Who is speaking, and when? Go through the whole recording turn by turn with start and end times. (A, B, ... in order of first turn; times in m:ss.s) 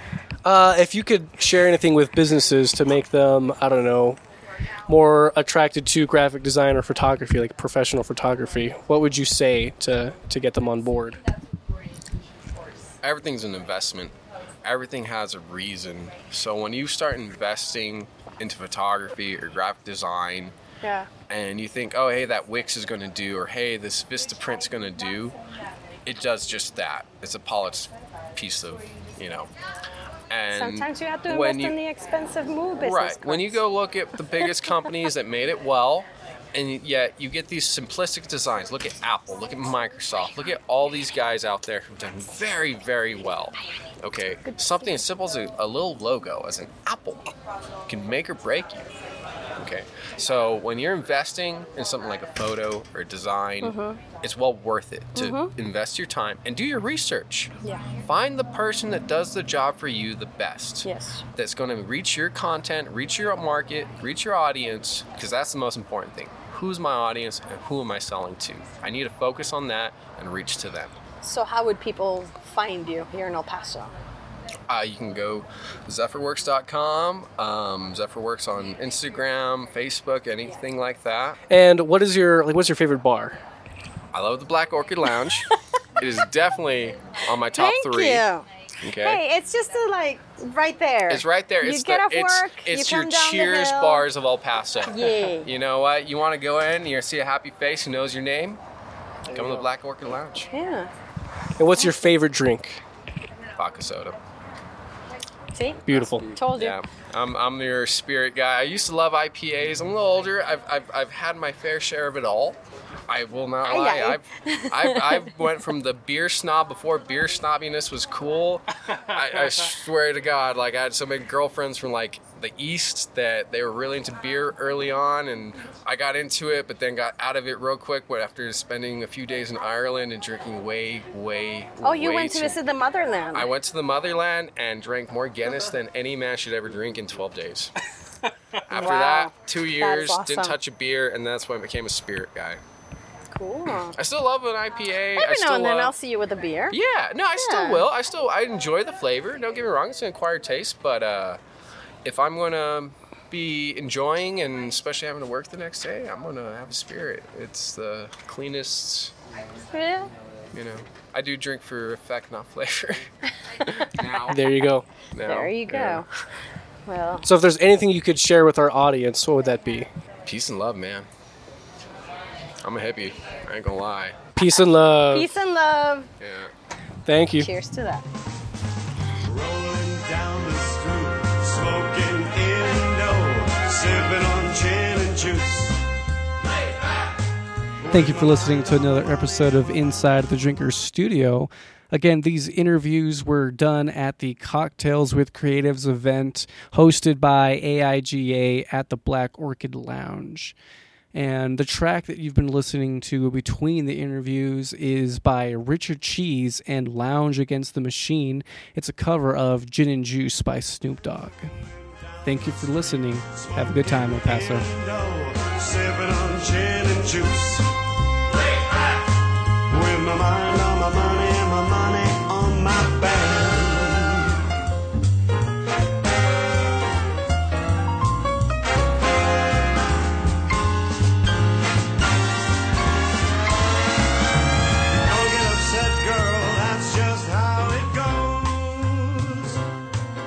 0:00.4-0:04.2 A
0:04.9-0:11.2 A
0:13.0-0:20.5 B
0:20.8-0:21.1 C
0:21.3-0:25.4 B
0:26.0-0:29.5 B
0:30.3-0:31.8 B
0:30.5-0:33.6 C
0:32.8-0:47.3 B
0:44.5-0:44.9 C
0:47.9-0:48.9 B
0:49.6-1:10.9 B
0:53.6-0:54.0 C
0:55.2-0:55.5 C
1:00.8-1:01.2 C
1:11.2-1:13.9 C
1:14.7-1:21.4 B
1:21.5-1:23.4 A
1:24.1-1:28.3 B
1:27.5-1:28.4 C
1:28.8-1:29.2 B
1:29.0-1:34.1 C
1:31.1-1:38.6 B
1:34.9-1:35.5 C
1:39.3-1:40.5 B
1:40.5-1:40.9 C
1:41.6-1:42.8 A
1:41.8-1:42.1 C
1:43.6-1:44.2 B
1:45.5-1:46.8 C
1:45.8-1:46.3 A
1:45.9-2:12.6 B
1:53.6-1:55.2 C
2:11.8-2:13.5 C
2:13.3-2:17.7 B
2:18.7-2:22.6 B
2:18.7-2:20.6 C
2:23.3-2:23.9 C
2:23.6-2:25.9 B
2:25.2-2:26.8 C
2:26.7-2:31.4 B
2:27.3-2:27.8 C
2:32.0-2:39.1 B
2:39.7-2:40.1 C
2:40.5-2:43.1 B
2:43.6-2:44.5 B
2:44.3-2:44.8 A
2:45.1-2:46.1 B
2:45.2-2:46.0 C
2:46.9-2:47.3 C
2:47.2-2:49.9 A
2:50.2-2:51.1 B
2:52.6-2:54.2 B
2:54.4-2:55.3 A
2:55.1-2:56.1 C
2:56.2-2:56.5 B
2:57.0-2:57.5 A
2:57.4-2:58.0 C
2:59.2-3:05.8 D
3:07.8-3:08.6 D
3:07.9-3:20.5 E
3:21.1-3:31.5 E
3:32.2-3:34.7 E
3:33.3-3:37.7 D
3:39.7-3:44.3 D
3:55.0-3:59.6 D